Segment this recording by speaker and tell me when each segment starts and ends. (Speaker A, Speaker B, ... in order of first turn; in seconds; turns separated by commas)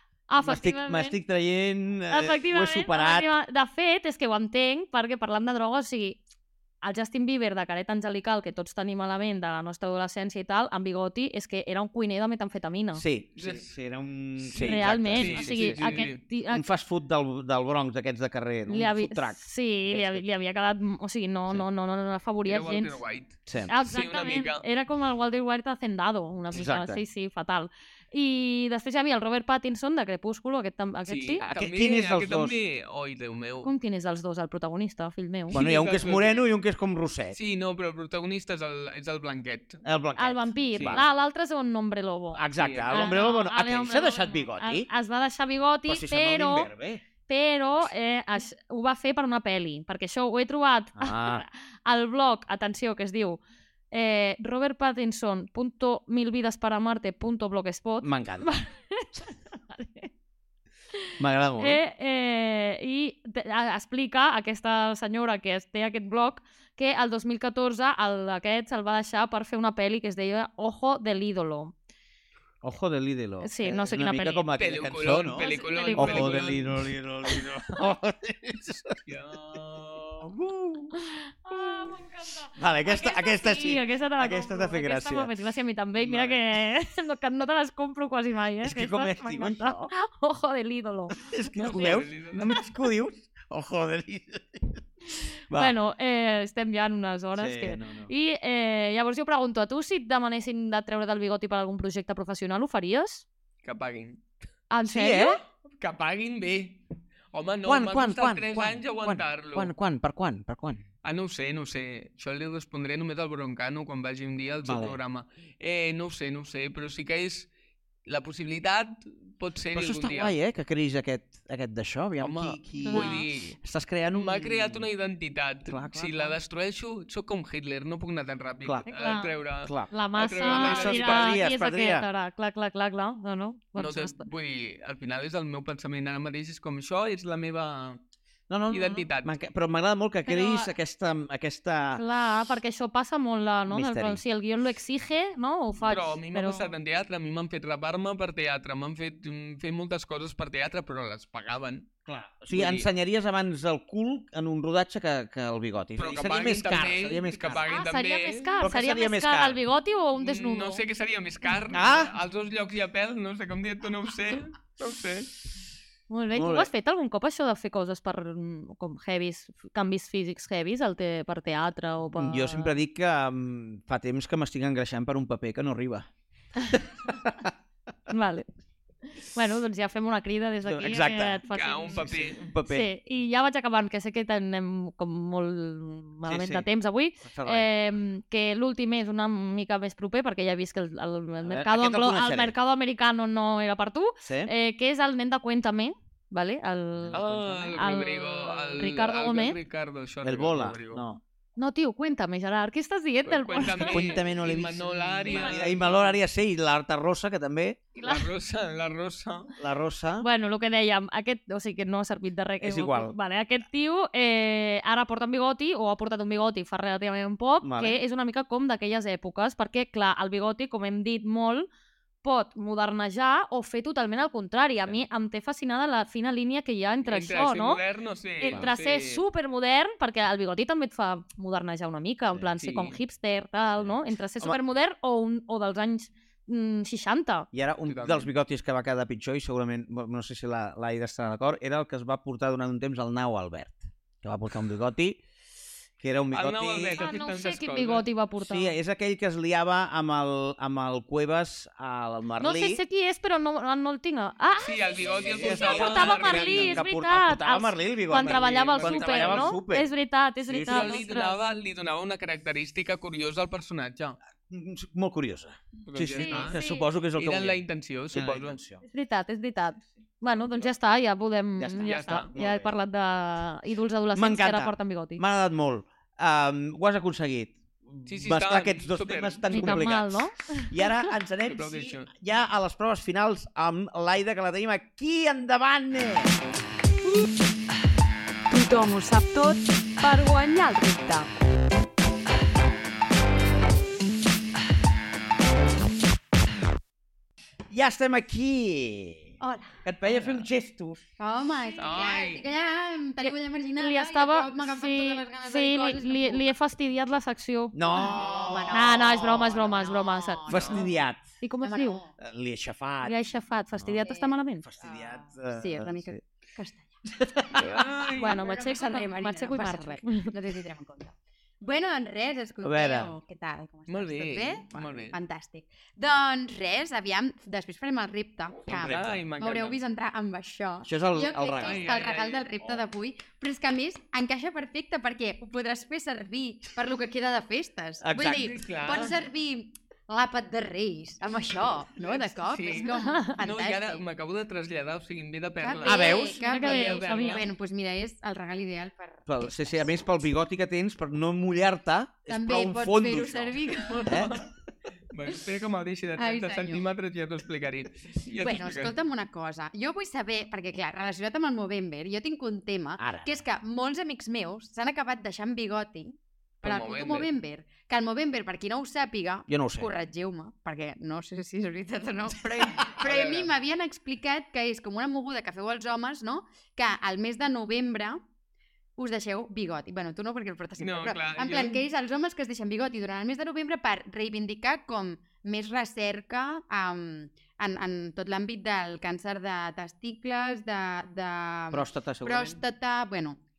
Speaker A: 0.3-1.2, Speaker B: 0.4-3.3, Speaker A: 2.1-6.2, Speaker A: 6.8-13.0, Speaker B: 12.9-20.2, Speaker C: 13.4-13.7, Speaker A: 14.6-16.6, Speaker C: 15.1-16.2, Speaker A: 18.7-22.9, Speaker C: 22.4-24.6, Speaker A: 23.7-31.4, Speaker B: 26.5-27.0, Speaker C: 31.1-33.7, Speaker B: 31.4-32.5, Speaker A: 33.6-35.6, Speaker C: 35.5-36.4, Speaker B: 35.5-37.4, Speaker C: 37.3-39.8, Speaker B: 39.8-41.1, Speaker A: 40.2-46.7, Speaker C: 40.7-41.0, Speaker B: 42.3-44.9, Speaker C: 42.6-43.2, Speaker B: 45.9-47.0, Speaker A: 47.3-53.4, Speaker B: 51.0-51.4, Speaker A: 53.9-60.1, Speaker B: 58.0-58.5, Speaker B: 61.2-61.8, Speaker A: 61.6-71.7, Speaker B: 72.6-79.0, Speaker A: 73.4-74.5, Speaker C: 74.6-76.8, Speaker A: 75.3-76.5, Speaker C: 79.0-80.3, Speaker B: 80.2-80.9, Speaker A: 81.0-91.2, Speaker B: 81.5-81.9, Speaker B: 82.5-85.3, Speaker B: 88.6-89.9, Speaker B: 91.1-94.8, Speaker C: 91.5-92.5, Speaker A: 95.5-103.2, Speaker B: 97.3-98.1, Speaker C: 103.6-104.2, Speaker A: 104.7-105.4, Speaker B: 104.8-105.4, Speaker C: 105.6-109.7, Speaker B: 107.7-110.8, Speaker C: 111.0-117.5, Speaker B: 114.6-115.0, Speaker C: 118.0-120.3, Speaker B: 119.7-124.9, Speaker C: 122.2-123.6, Speaker A: 122.8-123.2, Speaker C: 124.1-131.4, Speaker B: 125.7-126.4, Speaker A: 128.9-129.3, Speaker B: 129.6-132.1, Speaker A: 129.9-134.3, Speaker C: 133.8-138.0, Speaker B: 138.5-142.0, Speaker C: 138.7-139.4, Speaker A: 140.3-140.7, Speaker A: 142.0-146.7, Speaker B: 143.7-144.2, Speaker C: 145.8-151.9, Speaker B: 152.1-157.6, Speaker C: 152.5-152.9, Speaker C: 156.0-158.5, Speaker A: 157.6-160.8, Speaker B: 158.6-159.6, Speaker C: 160.2-165.3, Speaker B: 161.7-162.1, Speaker A: 166.1-172.8, Speaker B: 166.3-166.7, Speaker B: 172.2-176.1, Speaker B: 176.7-177.5, Speaker A: 178.1-178.4, Speaker A: 179.1-182.1, Speaker B: 180.6-181.4, Speaker C: 181.5-182.5, Speaker B: 182.0-182.9, Speaker A: 182.6-197.2, Speaker B: 186.2-186.7, Speaker B: 187.2-187.7, Speaker B: 191.4-192.5, Speaker B: 194.2-194.5, Speaker B: 196.9-197.9, Speaker C: 197.1-201.0, Speaker A: 197.7-199.6, Speaker B: 200.2-201.2, Speaker A: 201.6-204.2, Speaker C: 203.2-206.1, Speaker B: 203.7-208.2, Speaker C: 207.9-209.5, Speaker B: 209.6-210.2, Speaker A: 210.2-221.7, Speaker B: 212.6-213.1, Speaker B: 217.6-218.0, Speaker A: 222.2-227.8, Speaker C: 227.0-229.2, Speaker A: 228.4-237.5, Speaker C: 232.6-233.0, Speaker B: 233.8-234.6, Speaker B: 237.5-245.2, Speaker C: 237.8-238.3, Speaker B: 246.0-247.0, Speaker C: 246.3-248.1, Speaker A: 247.0-248.7, Speaker B: 248.4-252.8, Speaker A: 252.4-261.4, Speaker C: 254.6-256.8, Speaker B: 255.0-259.9, Speaker C: 258.1-259.6, Speaker B: 260.4-261.0, Speaker C: 260.6-264.2, Speaker B: 264.5-268.8, Speaker C: 265.9-266.6, Speaker A: 266.1-266.9, Speaker C: 267.1-268.6, Speaker A: 268.8-275.2, Speaker B: 271.6-272.7, Speaker C: 271.8-272.3, Speaker B: 274.1-286.4, Speaker C: 278.1-279.8, Speaker A: 279.5-280.8, Speaker C: 281.4-282.1, Speaker D: 288.5-291.3, Speaker B: 297.7-301.0, Speaker E: 299.4-299.7, Speaker C: 300.1-300.4, Speaker E: 301.2-306.5, Speaker C: 301.8-302.5, Speaker A: 303.8-307.8, Speaker B: 307.7-309.0, Speaker E: 307.9-310.9, Speaker A: 308.7-310.8, Speaker B: 310.5-311.2, Speaker C: 310.5-310.8, Speaker A: 311.4-312.0, Speaker E: 311.6-312.1, Speaker B: 312.2-313.2, Speaker A: 313.0-314.6, Speaker E: 314.0-317.0, Speaker B: 314.6-316.2, Speaker B: 317.2-317.9, Speaker C: 317.6-318.4, Speaker A: 318.2-320.3, Speaker E: 318.2-344.0, Speaker B: 322.6-323.1, Speaker C: 323.9-325.2, Speaker B: 328.7-329.2, Speaker C: 328.7-329.8, Speaker B: 330.8-331.8, Speaker C: 331.6-332.4, Speaker B: 338.0-338.6, Speaker C: 338.1-339.1, Speaker C: 342.5-347.5, Speaker A: 343.0-343.3, Speaker E: 345.6-349.8, Speaker B: 345.8-346.4, Speaker A: 346.4-347.4, Speaker B: 349.3-354.4, Speaker E: 352.3-354.2, Speaker C: 353.8-354.5, Speaker C: 355.1-358.9, Speaker E: 356.1-356.8, Speaker E: 358.4-378.2, Speaker B: 363.0-363.4, Speaker C: 366.6-367.3, Speaker B: 369.5-369.9, Speaker C: 372.9-373.5, Speaker E: 379.0-393.4, Speaker C: 380.8-381.8, Speaker B: 391.7-392.6